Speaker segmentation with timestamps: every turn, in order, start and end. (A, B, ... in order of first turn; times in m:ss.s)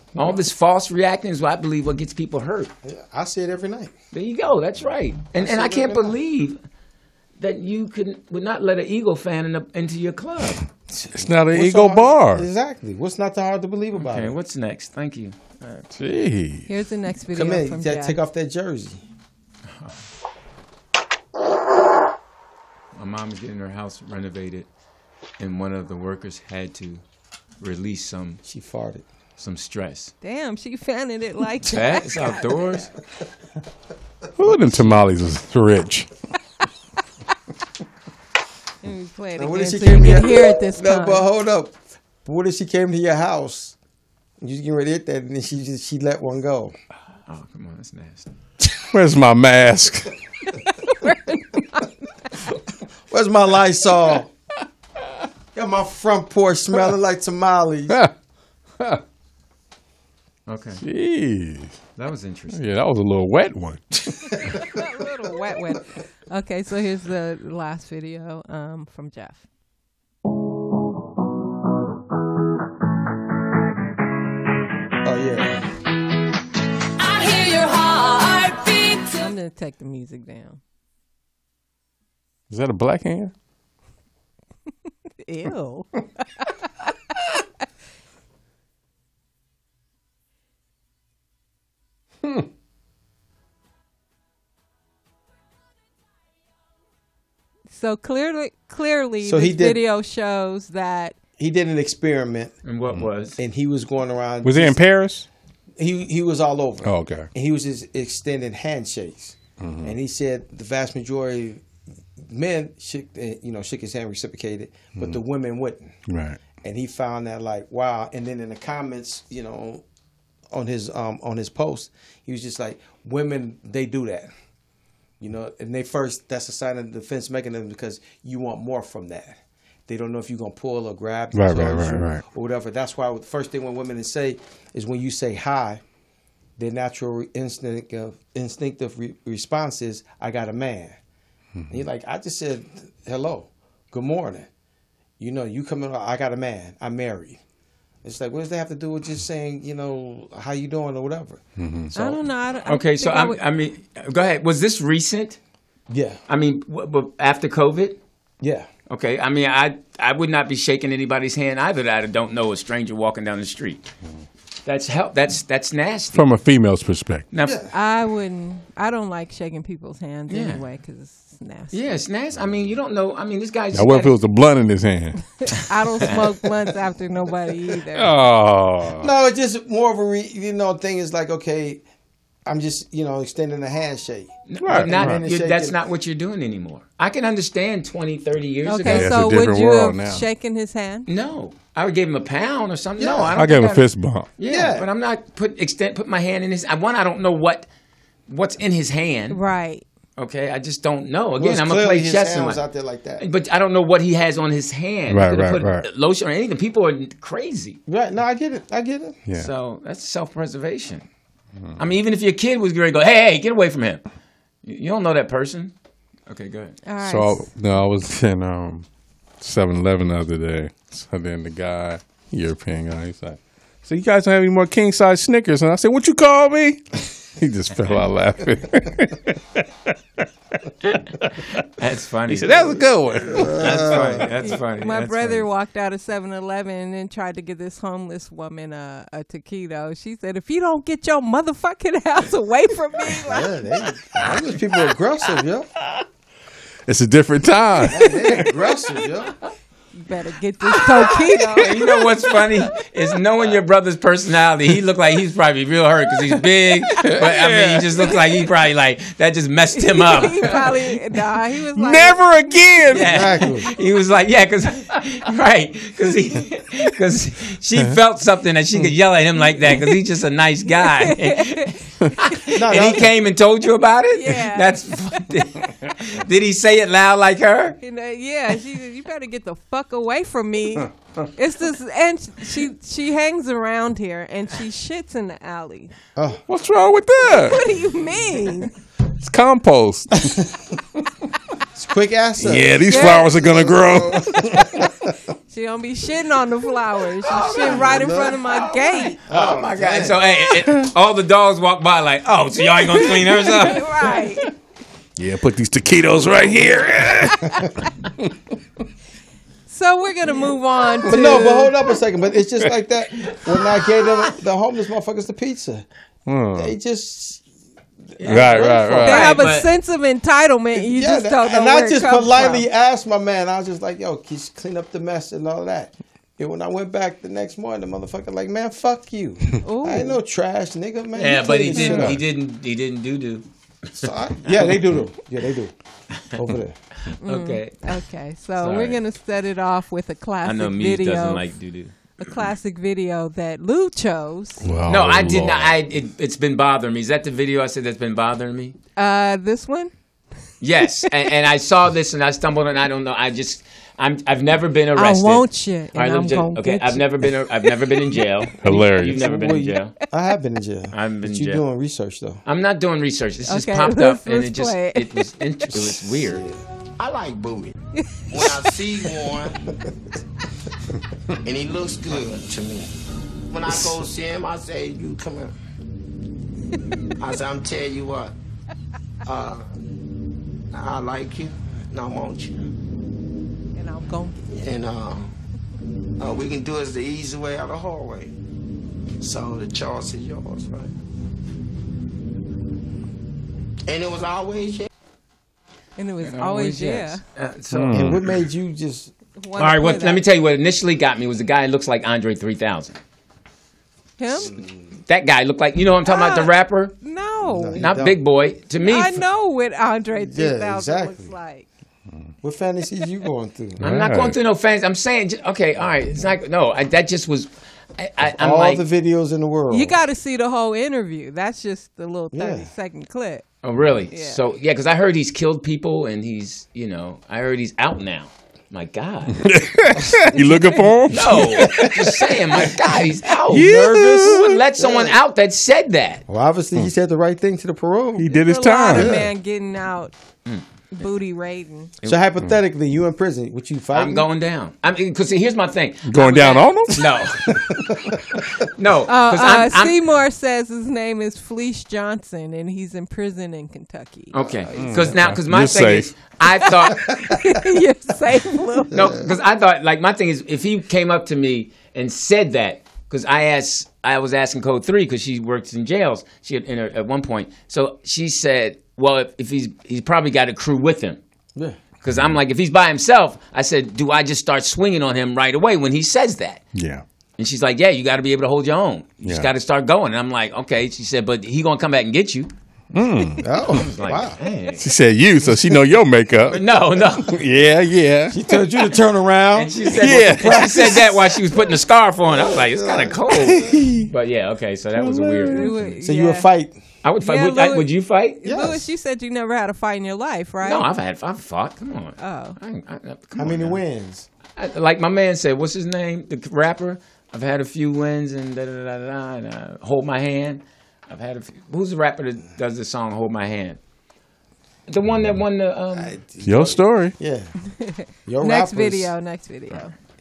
0:00.2-0:02.7 A
0:02.8-0:03.9 B
0:04.1-0:06.6 A
0:05.4-0:06.2 B
0:07.4-0:10.6 A
0:10.9-0:14.3 B
0:11.1-0:12.5 C
0:13.9-0:15.9 A
0:15.9-0:16.7 C
0:16.6-0:18.2 D
0:17.3-0:19.0 B
0:19.7-0:20.0 A
0:22.9-0:24.7 A
0:25.4-0:27.0 A
0:27.6-0:28.4 A
0:28.4-0:29.0 B
0:29.4-0:30.1 A
0:30.2-0:32.4 D
0:31.7-0:32.9 A
0:34.4-0:36.1 C
0:38.8-0:41.3 D
0:39.4-0:43.8 B
0:44.4-0:46.7 B
0:47.3-0:48.3 A
0:48.8-0:50.1 C
0:51.0-0:51.6 D
0:53.1-0:54.3 B
0:55.5-0:58.0 B
1:00.5-1:00.8 A
1:00.8-1:01.8 C
1:02.0-1:02.6 A
1:02.5-1:04.6 C
1:04.4-1:09.4 D
1:15.0-1:15.6 B
1:17.0-1:19.3 E
1:19.2-1:20.6 D
1:22.5-1:23.3 C
1:25.2-1:25.9 D
1:26.4-1:26.9 D
1:37.7-1:41.2 D
1:39.2-1:39.8 B
1:41.4-1:42.5 B
1:42.6-1:43.4 A
1:43.4-1:44.8 B
1:44.4-1:45.3 C
1:45.8-1:51.6 B
1:46.8-1:47.3 C
1:49.6-1:49.9 C
1:52.2-1:56.0 B
1:56.1-1:56.4 C
1:56.6-1:59.8 B
2:00.5-2:04.3 B
2:05.2-2:15.8 B
2:11.3-2:12.2 C
2:16.6-2:21.0 B
2:21.7-2:24.5 B
2:25.2-2:27.4 B
2:28.0-2:31.4 B
2:31.6-2:31.9 C
2:31.9-2:33.4 D
2:32.6-2:35.4 A
2:35.9-2:36.2 B
2:36.3-2:38.0 A
2:38.4-2:38.7 B
2:38.9-2:43.9 A
2:44.6-2:46.2 A
2:46.1-2:47.3 C
2:47.3-2:47.6 A
2:47.4-2:47.7 B
2:47.7-2:51.9 D
2:50.3-2:50.6 A
2:51.7-2:54.1 A
2:53.7-2:55.2 C
2:55.5-2:58.2 D
2:57.9-2:59.1 C
2:59.0-3:01.8 B
3:02.4-3:05.8 B
3:04.5-3:09.1 A
3:04.6-3:05.2 C
3:08.6-3:11.1 D
3:08.8-3:10.2 C
3:11.0-3:17.7 A
3:13.0-3:13.4 B
3:13.3-3:14.3 C
3:14.4-3:14.9 B
3:18.3-3:19.4 A
3:19.3-3:19.8 D
3:20.2-3:22.6 A
3:21.4-3:23.2 B
3:23.2-3:27.8 A
3:25.1-3:25.8 C
3:27.9-3:29.2 B
3:29.4-3:31.1 A
3:31.8-3:34.0 A
3:34.6-3:35.7 A
3:36.3-3:36.8 A
3:36.8-3:37.5 D
3:37.0-3:38.8 C
3:39.4-3:46.8 C
3:47.4-3:49.6 C
3:51.5-3:52.8 A
3:52.3-3:54.2 C
3:53.3-3:54.3 B
3:53.3-3:55.4 A
3:54.4-4:03.6 D
4:03.2-4:05.7 B
4:06.9-4:08.5 C
4:07.9-4:09.3 B
4:10.0-4:11.8 D
4:11.6-4:20.6 A
4:17.0-4:18.1 C
4:19.8-4:22.8 D
4:21.7-4:23.2 C
4:22.9-4:37.8 A
4:23.0-4:23.7 B
4:30.8-4:31.8 D
4:32.5-4:33.1 B
4:34.1-4:35.2 D
4:37.8-4:45.9 D
4:46.2-4:46.4 B
4:46.5-4:47.6 C
4:47.2-4:48.7 D
4:49.2-4:50.3 C
4:51.7-4:54.9 B
4:52.4-4:54.7 C
4:52.9-4:53.4 D
4:55.5-4:59.2 D
4:57.4-4:58.5 B
4:59.3-5:00.2 B
4:59.3-5:03.8 A
5:03.6-5:04.5 D
5:05.2-5:07.6 C
5:09.7-5:11.8 D
5:11.0-5:15.8 B
5:16.3-5:16.7 C
5:16.5-5:17.4 B
5:18.2-5:19.7 A
5:18.2-5:19.1 B
5:18.2-5:19.4 C
5:19.0-5:22.7 D
5:20.7-5:32.2 B
5:29.6-5:30.2 D
5:31.2-5:33.4 A
5:31.8-5:32.2 C
5:34.0-5:35.7 B
5:36.3-5:36.8 B
5:37.2-5:41.4 D
5:37.2-5:37.9 A
5:38.6-5:39.0 A
5:40.4-5:41.9 A
5:42.2-5:44.7 D
5:44.6-5:45.8 C
5:44.9-5:48.8 A
5:49.0-5:49.9 D
5:50.6-5:59.9 A
5:54.9-5:58.3 D
5:58.6-5:59.3 C
5:59.0-6:02.4 B
6:00.9-6:01.6 A
6:02.4-6:06.4 A
6:03.4-6:05.3 D
6:06.2-6:06.6 B
6:07.0-6:07.7 F
6:08.0-6:08.8 D
6:08.3-6:09.6 F
6:11.4-6:12.9 F
6:13.5-6:15.5 F
6:17.2-6:18.3 F
6:19.2-6:19.6 F
6:20.7-6:22.6 F
6:23.7-6:24.4 D
6:24.5-6:25.3 F
6:26.2-6:28.3 F
6:29.2-6:30.9 F
6:33.9-6:34.9 F
6:36.0-6:37.2 D
6:36.2-6:38.1 A
6:37.7-6:38.2 C
6:37.9-6:39.1 B
6:39.4-6:40.2 D
6:39.6-6:43.0 A
6:44.2-6:44.5 D
6:44.3-6:44.8 B
6:45.0-6:46.9 A
6:46.0-6:47.8 D
6:47.4-6:48.2 B
6:47.8-6:49.2 A
6:48.8-6:51.7 D
6:50.1-6:51.3 B
6:52.4-6:53.8 B
6:53.8-6:54.4 C
6:53.8-6:58.8 A
6:58.2-7:00.0 B
6:59.7-7:03.5 D
7:02.3-7:02.7 B
7:03.6-7:09.4 A
7:04.1-7:04.4 D
7:09.4-7:12.1 C
7:10.1-7:10.8 B
7:11.1-7:16.2 A
7:13.5-7:14.6 C
7:13.5-7:15.2 B
7:16.3-7:18.4 B
7:18.2-7:19.2 C
7:18.3-7:20.1 D
7:18.9-7:19.3 B
7:20.9-7:21.9 D
7:22.0-7:24.3 B
7:23.9-7:27.6 A
7:26.0-7:27.5 C
7:27.7-7:28.2 B
7:28.7-7:30.0 A
7:29.0-7:34.3 D
7:34.3-7:37.0 A
7:34.4-7:35.1 B
7:34.7-7:36.3 C
7:36.6-7:39.1 D
7:37.0-7:37.4 B
7:38.9-7:51.2 A
7:38.9-7:39.3 B
7:52.0-7:56.6 A
7:56.7-7:57.0 C
7:57.4-8:02.5 A
7:59.2-7:59.5 C
8:02.9-8:03.4 C
8:03.4-8:04.4 B
8:03.8-8:04.8 A
8:04.8-8:08.4 C
8:06.5-8:07.4 A
8:08.3-8:11.1 B
8:09.6-8:15.9 A
8:10.0-8:11.0 C
8:12.3-8:13.7 B
8:13.5-8:14.0 C
8:15.0-8:15.7 C
8:15.5-8:16.5 D
8:16.0-8:16.8 B
8:17.0-8:18.4 A
8:17.2-8:20.9 D
8:18.4-8:18.9 B
8:20.6-8:23.8 A
8:22.2-8:22.6 D
8:23.4-8:24.3 B
8:24.6-8:33.8 A
8:34.9-8:36.2 A
8:35.9-8:37.5 B
8:36.4-8:37.1 C
8:37.8-8:39.9 D
8:38.2-8:39.1 B